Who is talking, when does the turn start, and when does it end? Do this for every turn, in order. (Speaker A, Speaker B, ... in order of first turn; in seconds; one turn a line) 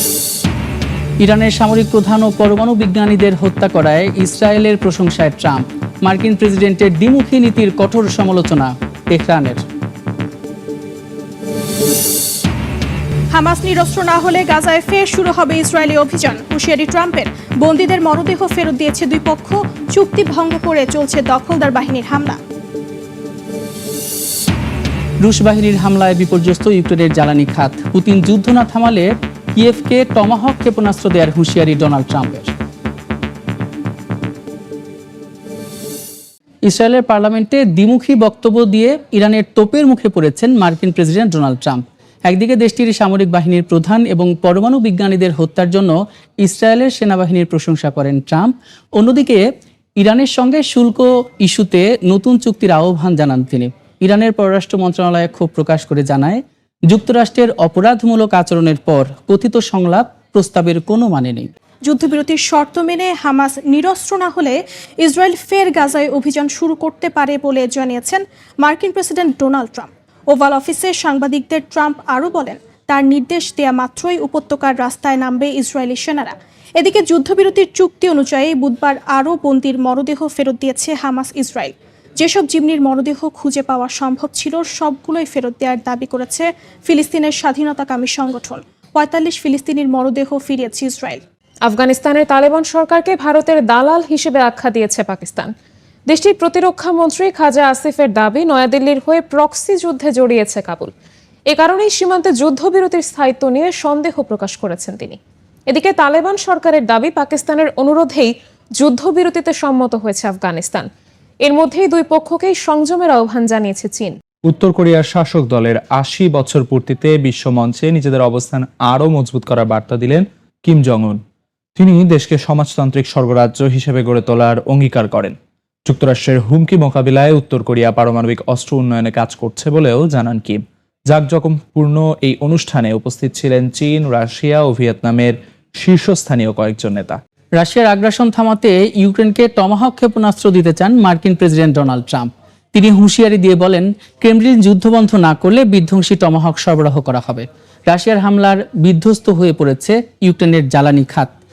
Speaker A: 1.2-9.6
Speaker B: 13.3-22.4
Speaker A: 25.2-32.5
Speaker A: 36.6-49.4
Speaker A: 50.0-61.5
Speaker B: 61.8-91.2
Speaker C: 91.7-95.5
Speaker C: 96.1-100.9
Speaker C: 101.5-105.2
Speaker C: 105.7-110.9
Speaker C: 111.4-114.2
Speaker D: 114.5-121.2
Speaker D: 121.8-125.3
Speaker D: 125.8-137.2
Speaker A: 137.6-151.3